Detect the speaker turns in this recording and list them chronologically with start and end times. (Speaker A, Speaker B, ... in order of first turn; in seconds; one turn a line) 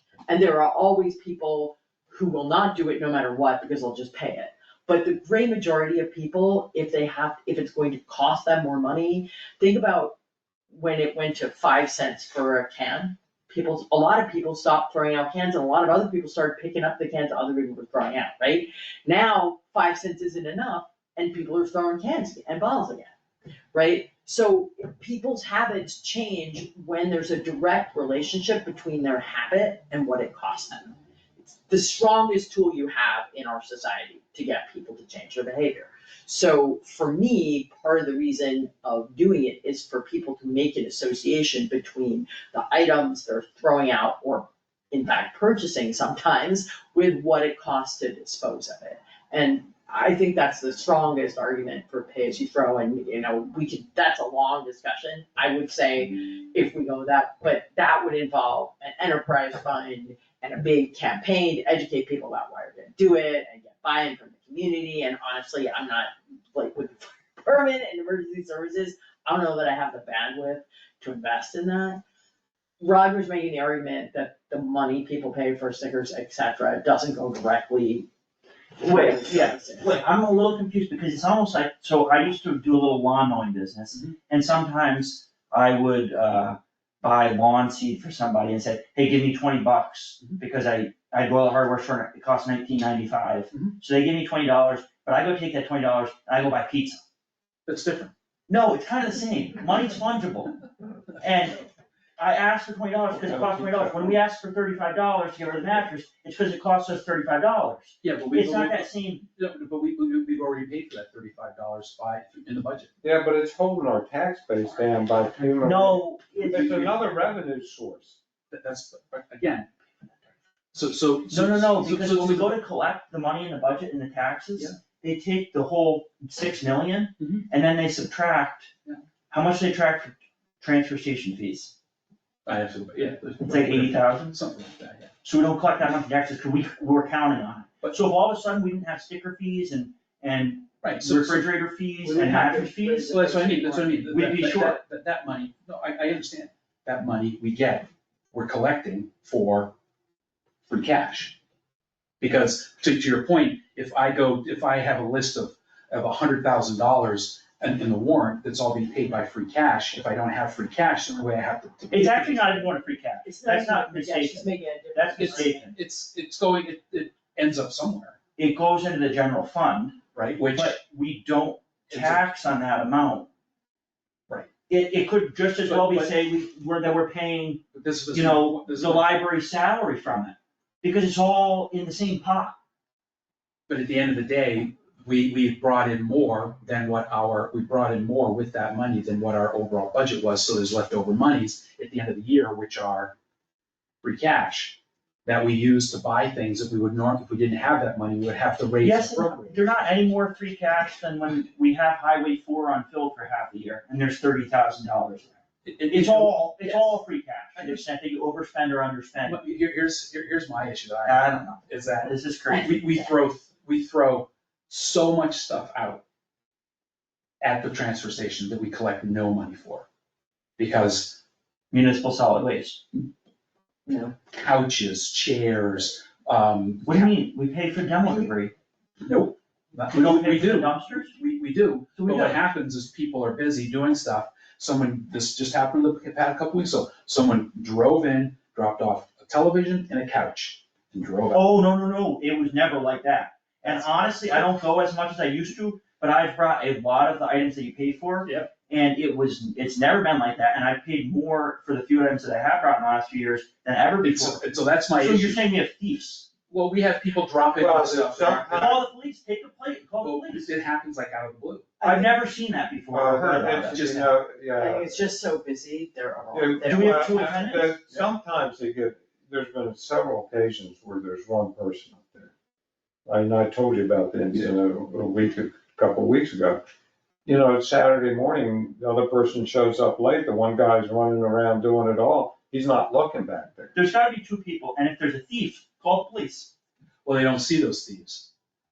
Speaker A: 0.3-10.1
Speaker A: 10.7-23.1
Speaker A: 23.7-72.0
Speaker A: 72.8-78.1
Speaker A: 78.8-80.0
Speaker B: 78.8-97.0
Speaker C: 93.5-93.8
Speaker C: 97.7-98.1
Speaker B: 98.5-100.5
Speaker B: 101.2-101.6
Speaker B: 102.2-109.2
Speaker D: 103.3-104.2
Speaker C: 108.0-112.9
Speaker D: 113.0-118.2
Speaker C: 115.2-115.6
Speaker B: 115.6-116.9
Speaker C: 116.4-117.1
Speaker C: 118.5-119.7
Speaker C: 120.7-122.6
Speaker B: 121.3-128.7
Speaker C: 127.2-127.5
Speaker B: 129.3-131.7
Speaker C: 132.4-135.1
Speaker B: 133.4-134.3
Speaker B: 135.2-143.1
Speaker C: 140.8-141.5
Speaker A: 142.0-144.0
Speaker C: 142.2-142.5
Speaker C: 143.1-149.7
Speaker B: 144.1-144.8
Speaker C: 150.7-151.3
Speaker C: 152.2-162.7
Speaker B: 161.9-165.8
Speaker A: 163.2-165.6
Speaker C: 165.2-168.2
Speaker B: 168.4-170.0
Speaker C: 170.1-170.8
Speaker B: 170.5-173.3
Speaker C: 171.9-172.3
Speaker B: 174.7-177.6
Speaker C: 175.6-176.2
Speaker C: 177.7-179.1
Speaker B: 178.1-182.6
Speaker C: 183.7-193.1
Speaker C: 194.0-200.1
Speaker B: 198.8-205.3
Speaker C: 205.6-207.0
Speaker B: 205.9-209.4
Speaker C: 207.6-207.8
Speaker C: 209.2-216.0
Speaker B: 211.1-212.8
Speaker A: 212.5-213.1
Speaker C: 217.4-219.8
Speaker C: 220.6-221.2
Speaker B: 221.7-223.0
Speaker C: 224.3-227.1
Speaker B: 226.8-228.5
Speaker C: 229.0-241.5
Speaker B: 229.9-231.2
Speaker B: 232.0-232.4
Speaker B: 241.3-254.4
Speaker C: 243.6-244.4
Speaker C: 248.2-248.5
Speaker C: 254.0-255.4
Speaker B: 254.9-256.3
Speaker C: 256.5-258.8
Speaker D: 257.5-258.8
Speaker B: 258.4-260.5
Speaker C: 260.0-261.7
Speaker A: 261.8-262.1
Speaker B: 261.8-263.9
Speaker D: 262.9-265.1
Speaker C: 263.6-264.2
Speaker A: 264.5-267.7
Speaker D: 266.3-272.3
Speaker B: 266.6-267.7
Speaker D: 273.1-276.6
Speaker D: 277.2-283.7
Speaker B: 283.7-286.5
Speaker C: 287.0-288.3